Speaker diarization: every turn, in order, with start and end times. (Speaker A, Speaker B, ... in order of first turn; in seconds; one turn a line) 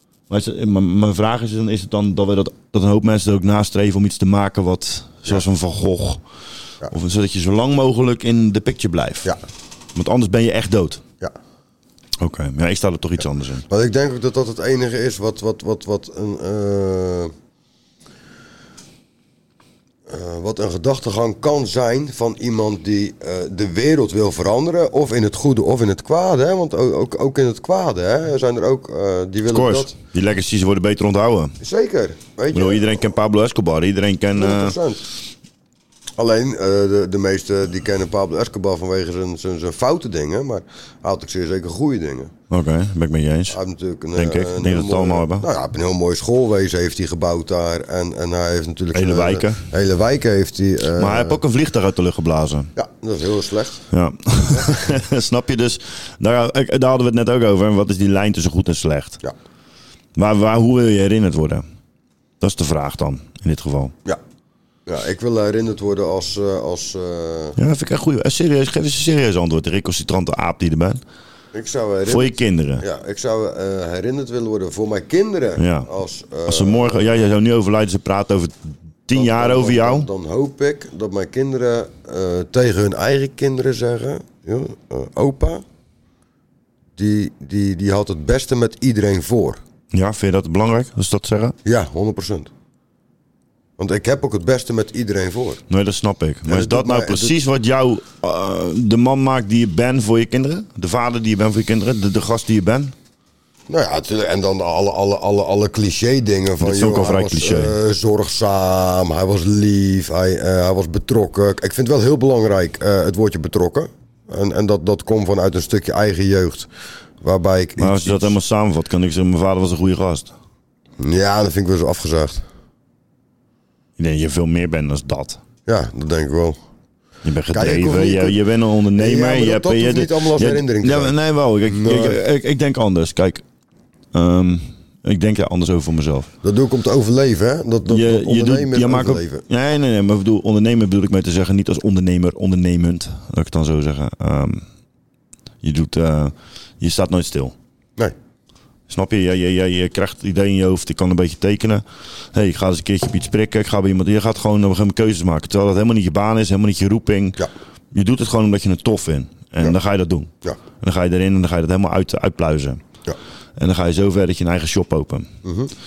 Speaker A: 0.3-6.2
Speaker A: 6.9-9.3
Speaker A: 9.9-11.0
Speaker A: 12.2-13.6
Speaker B: 13.7-17.3
Speaker B: 20.1-29.9
Speaker A: 29.5-31.6
Speaker B: 31.6-33.0
Speaker A: 32.5-34.8
Speaker B: 34.3-35.0
Speaker B: 36.2-42.3
Speaker A: 42.5-43.6
Speaker B: 43.5-51.4
Speaker A: 44.1-45.5
Speaker A: 48.9-49.6
Speaker A: 51.0-52.7
Speaker B: 52.8-53.8
Speaker A: 53.9-59.2
Speaker A: 60.1-61.6
Speaker A: 62.4-63.9
Speaker B: 64.9-67.6
Speaker A: 67.6-71.0
Speaker B: 71.5-77.2
Speaker A: 72.1-72.8
Speaker A: 75.6-75.9
Speaker A: 76.5-80.1
Speaker B: 79.1-85.6
Speaker B: 87.0-89.6
Speaker A: 89.9-91.5
Speaker B: 91.6-92.5
Speaker B: 93.8-95.6
Speaker A: 95.7-102.9
Speaker B: 96.5-97.3
Speaker B: 103.7-116.7
Speaker A: 106.6-107.8
Speaker B: 117.2-118.3
Speaker A: 117.8-120.3
Speaker B: 121.0-122.4
Speaker A: 124.0-125.4
Speaker B: 125.7-126.6
Speaker A: 127.2-133.4
Speaker B: 127.5-128.4
Speaker B: 129.0-131.1
Speaker B: 131.7-132.2
Speaker A: 134.1-136.3
Speaker B: 136.4-139.4
Speaker A: 137.9-144.6
Speaker A: 145.6-147.5
Speaker A: 148.9-157.4
Speaker A: 157.9-162.8
Speaker A: 163.6-165.3
Speaker B: 165.4-165.7